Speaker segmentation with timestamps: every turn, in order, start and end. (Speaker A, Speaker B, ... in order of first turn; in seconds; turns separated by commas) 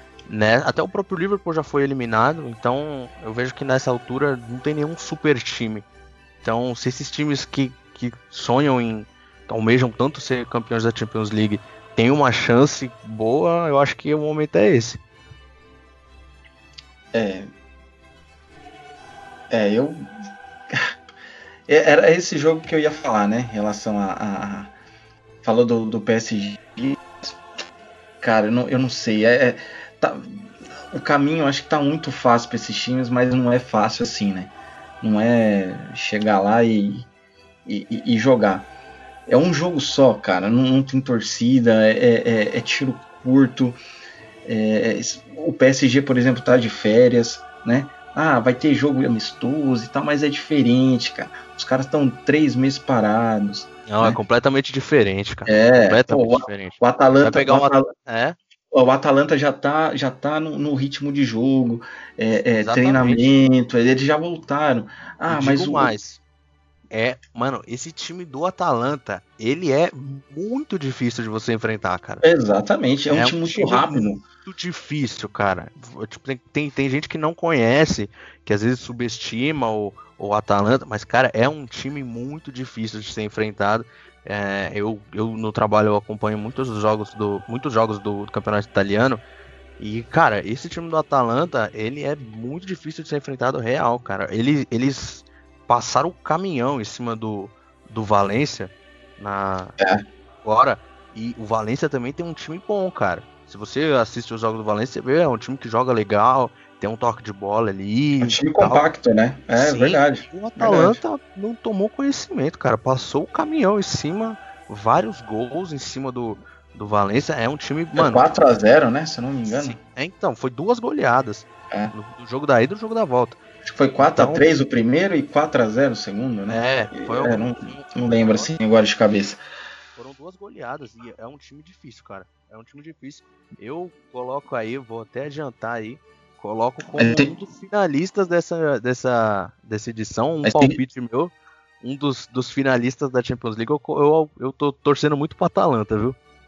Speaker A: 0.3-5.8, Speaker A: 6.4-15.0, Speaker B: 17.1-17.5, Speaker B: 19.5-20.1, Speaker B: 21.7-24.7, Speaker B: 25.4-27.4, Speaker B: 28.2-37.1, Speaker B: 37.6-38.7, Speaker B: 39.3-43.8, Speaker B: 44.4-54.2, Speaker A: 53.9-58.4, Speaker B: 55.5-57.9, Speaker B: 58.7-66.0, Speaker A: 62.6-63.3, Speaker A: 65.3-66.2, Speaker A: 66.9-72.2, Speaker B: 72.2-74.2, Speaker A: 73.1-89.2, Speaker A: 89.8-99.8, Speaker A: 100.4-108.9, Speaker B: 108.2-111.0, Speaker A: 109.5-118.3, Speaker B: 118.0-119.8, Speaker A: 119.5-123.4, Speaker B: 123.6-129.4, Speaker A: 124.0-124.5, Speaker A: 126.5-128.5, Speaker A: 129.9-146.2, Speaker B: 137.0-137.3, Speaker B: 140.4-140.8